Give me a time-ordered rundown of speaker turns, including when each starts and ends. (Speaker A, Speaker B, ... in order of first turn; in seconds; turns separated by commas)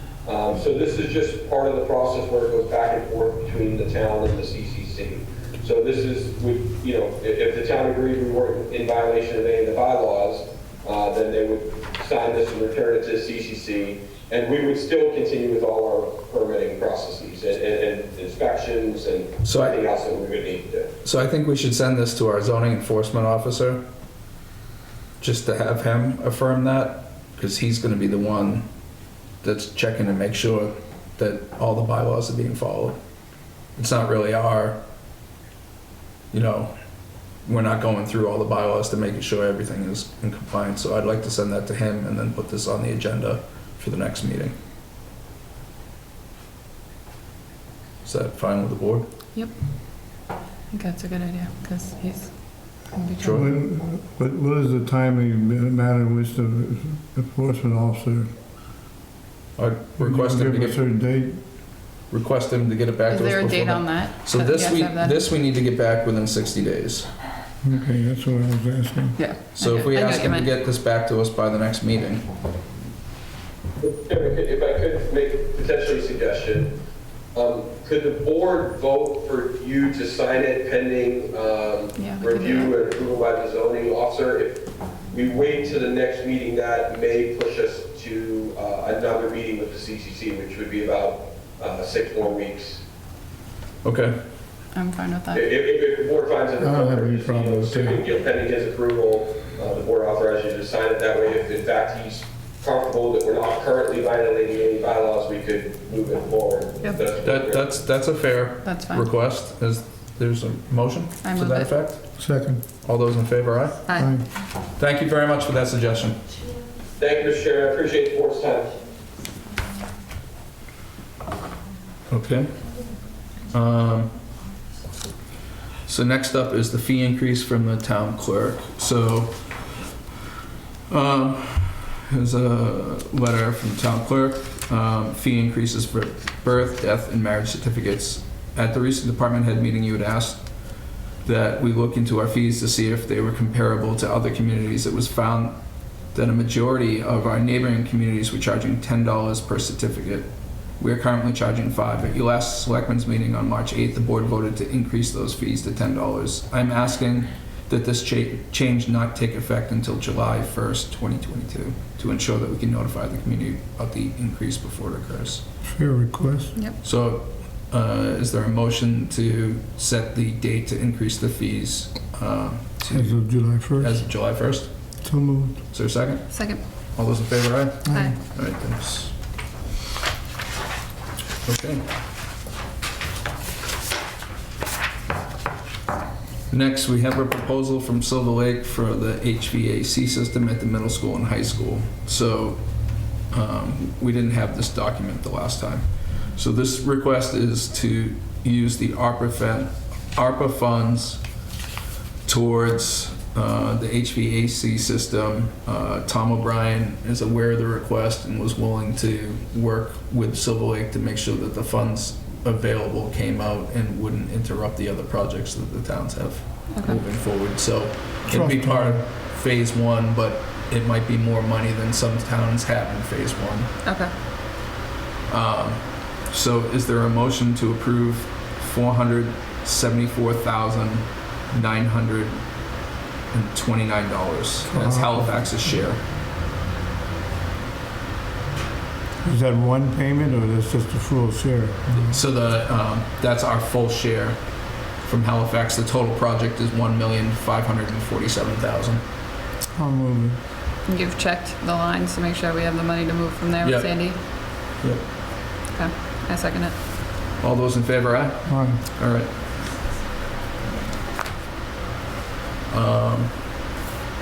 Speaker A: 0.2-20.9, Speaker B: 19.4-19.8, Speaker B: 21.0-23.8, Speaker B: 25.2-28.7, Speaker B: 29.4-33.0, Speaker B: 33.8-34.8, Speaker B: 36.3-36.7, Speaker B: 37.4-44.5, Speaker B: 48.0-49.1, Speaker C: 50.7-53.4, Speaker D: 53.3-58.3, Speaker B: 59.6-60.8, Speaker D: 59.9-61.4, Speaker B: 62.1-67.1, Speaker C: 63.1-65.3, Speaker D: 67.6-69.2, Speaker C: 69.2-70.5, Speaker B: 69.5-72.3, Speaker A: 73.8-76.7, Speaker A: 77.3-92.8, Speaker C: 82.0-82.7, Speaker B: 93.8-94.1, Speaker C: 94.7-95.5, Speaker A: 95.3-107.6, Speaker D: 96.6-98.0, Speaker B: 107.2-112.1, Speaker C: 108.6-109.1, Speaker C: 111.2-111.7, Speaker D: 112.2-112.6, Speaker B: 112.8-113.8, Speaker C: 113.8-114.1, Speaker D: 113.9-114.2, Speaker B: 114.8-116.2, Speaker A: 117.0-118.8, Speaker B: 122.1-122.5, Speaker B: 123.5-124.1, Speaker B: 125.8-129.8, Speaker B: 130.9-140.4, Speaker B: 141.2-145.6, Speaker B: 146.1-165.4, Speaker D: 165.7-166.7, Speaker B: 166.8-173.2, Speaker D: 172.9-174.0, Speaker B: 173.8-174.7, Speaker D: 175.0-175.6, Speaker B: 175.7-176.3, Speaker C: 176.3-176.6, Speaker B: 176.9-179.1, Speaker D: 177.8-178.2, Speaker C: 177.9-178.2, Speaker B: 181.4-181.8, Speaker B: 186.5-192.7, Speaker B: 193.3-201.2, Speaker B: 202.2-223.7, Speaker C: 216.7-217.0, Speaker D: 218.3-219.1, Speaker C: 223.8-224.1, Speaker B: 225.3-232.4, Speaker B: 233.3-236.0, Speaker D: 234.7-235.3, Speaker D: 239.2-242.1, Speaker B: 241.9-244.4, Speaker B: 244.9-249.0, Speaker D: 249.8-250.4, Speaker C: 250.8-254.2, Speaker B: 253.6-253.9, Speaker C: 255.7-256.7, Speaker B: 257.4-259.3, Speaker D: 258.5-258.8, Speaker B: 262.7-263.3